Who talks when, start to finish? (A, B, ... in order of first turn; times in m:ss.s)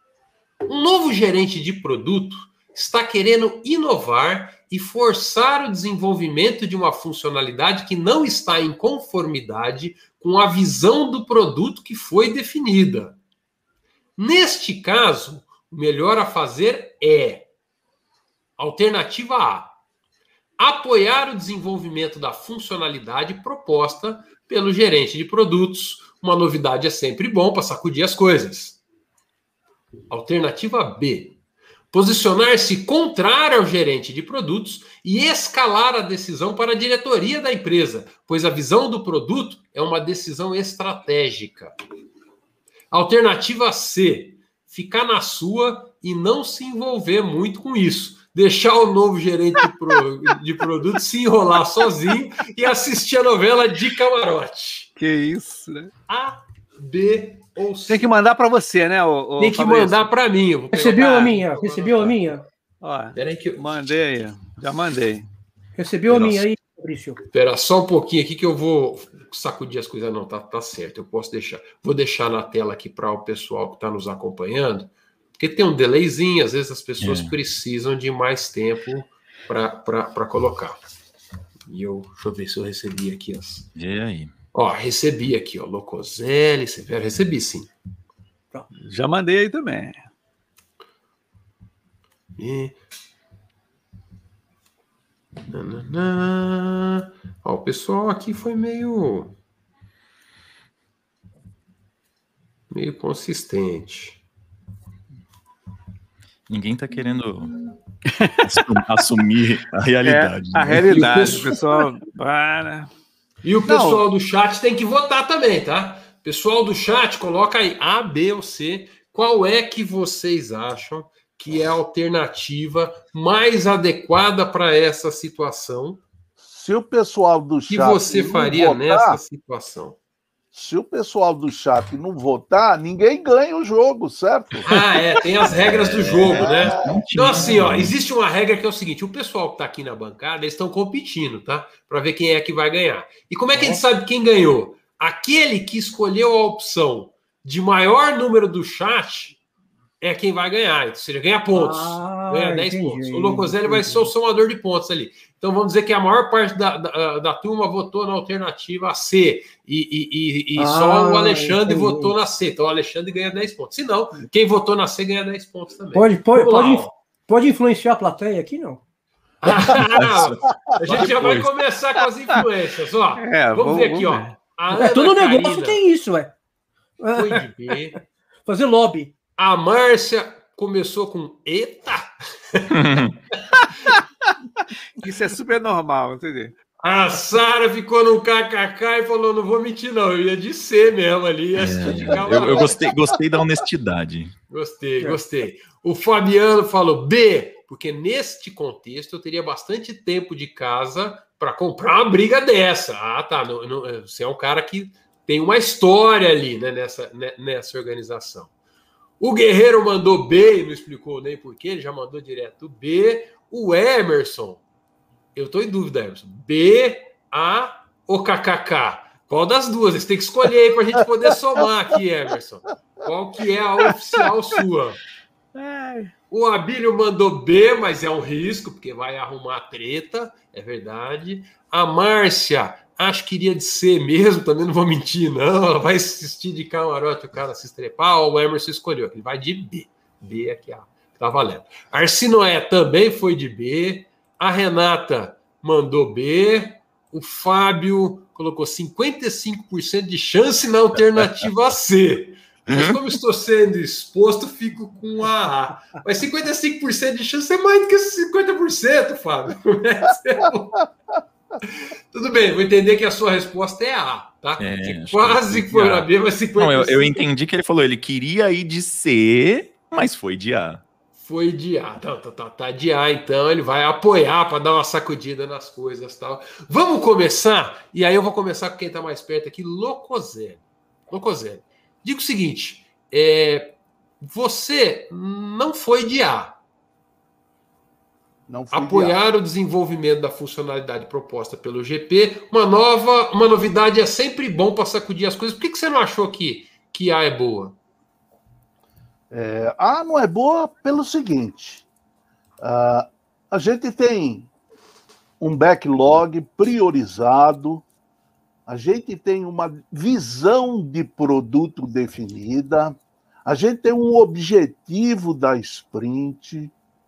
0:00.7-0:13.2 A
0:14.2-0:17.5 A
0:18.6-0:19.8 A
0:20.6-0:28.8 A
0:30.1-0:31.4 A
0:31.9-0:41.7 A
0:42.9-0:54.9 A
0:55.0-0:55.9 B
0:56.1-0:58.1 A
0:57.9-1:00.1 B
0:59.4-1:02.3 A
1:00.7-1:02.4 C
1:02.8-1:05.2 B
1:03.1-1:03.8 A
1:05.8-1:07.2 C
1:06.1-1:06.4 A
1:07.3-1:20.8 A
1:17.0-1:17.3 D
1:21.7-1:23.7 A
1:23.7-1:24.3 D
1:24.5-1:27.7 A
1:28.8-1:30.0 B
1:32.4-1:32.8 A
1:35.5-1:39.3 A
1:42.7-1:44.2 A
1:46.5-1:47.6 D
1:48.1-1:48.4 B
1:48.4-1:51.6 D
1:50.0-1:52.9 B
1:50.9-1:51.4 A
1:53.4-2:06.0 A
1:53.6-1:54.0 B
2:06.4-2:09.2 E
2:07.7-2:10.0 A
2:10.5-2:14.7 E
2:14.6-2:29.4 A
2:15.5-2:17.9 D
2:16.2-2:17.0 E
2:30.0-2:46.9 A
2:31.5-2:34.1 C
2:40.6-2:42.1 C
2:45.9-2:48.8 C
2:49.4-2:55.8 A
2:49.7-2:51.5 D
2:53.2-2:54.3 B
2:54.7-2:56.3 C
2:57.0-2:57.7 C
2:57.1-2:58.0 A
2:58.4-2:59.1 C
2:59.4-3:02.7 A
3:02.7-3:03.2 D
3:05.0-3:06.5 B
3:06.8-3:12.8 A
3:11.6-3:14.3 D
3:14.5-3:28.5 A
3:29.2-3:34.6 A
3:35.3-3:45.0 A
3:45.5-3:46.1 B
3:46.3-4:20.9 A
4:12.7-4:13.0 D
4:21.6-4:27.2 A
4:24.6-4:30.8 D
4:31.2-4:46.6 A
4:48.5-4:49.2 E
4:48.7-4:57.8 A
4:59.3-5:01.8 E
5:02.6-5:04.5 E
5:05.4-5:07.8 E
5:08.7-5:16.7 E